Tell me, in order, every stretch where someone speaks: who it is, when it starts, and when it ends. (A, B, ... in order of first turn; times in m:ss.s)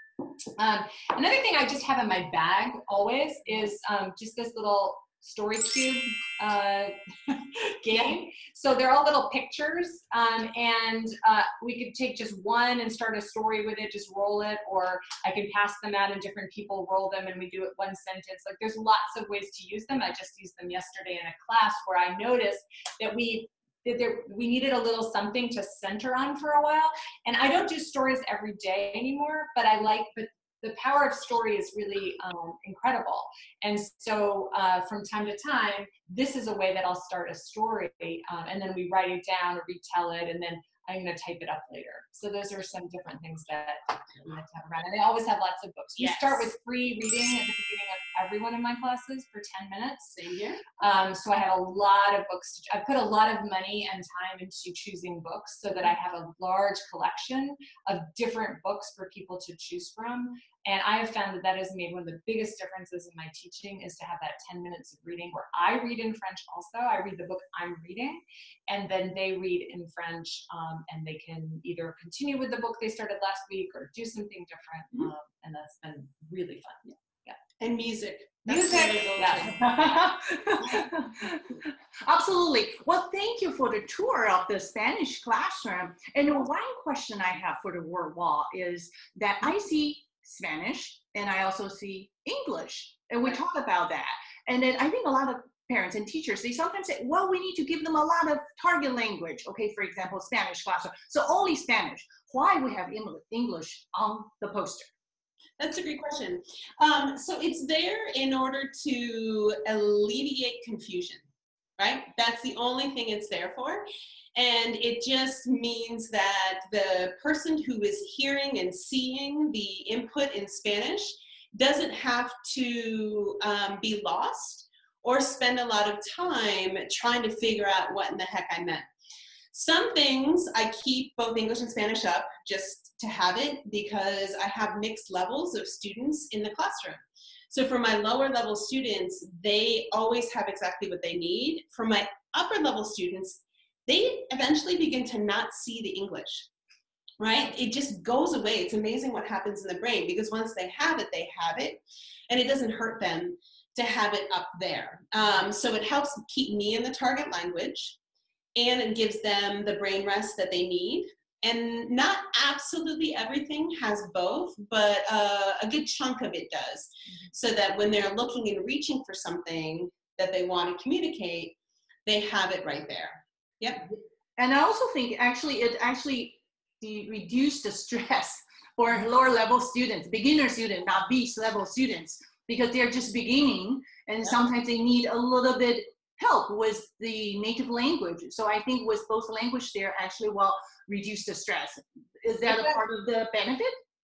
0:00.6-0:50.1 A
0:46.0-0:46.5 B
0:50.1-0:50.6 B
0:50.8-1:17.4 A
1:17.6-1:19.6 B
1:18.5-1:19.5 A
1:19.5-1:44.9 C
1:45.6-1:51.2 B
1:51.8-2:08.9 B
2:09.5-2:26.5 B
2:27.2-2:38.0 B
2:38.6-2:53.9 B
2:54.4-3:13.8 C
3:12.5-3:12.8 A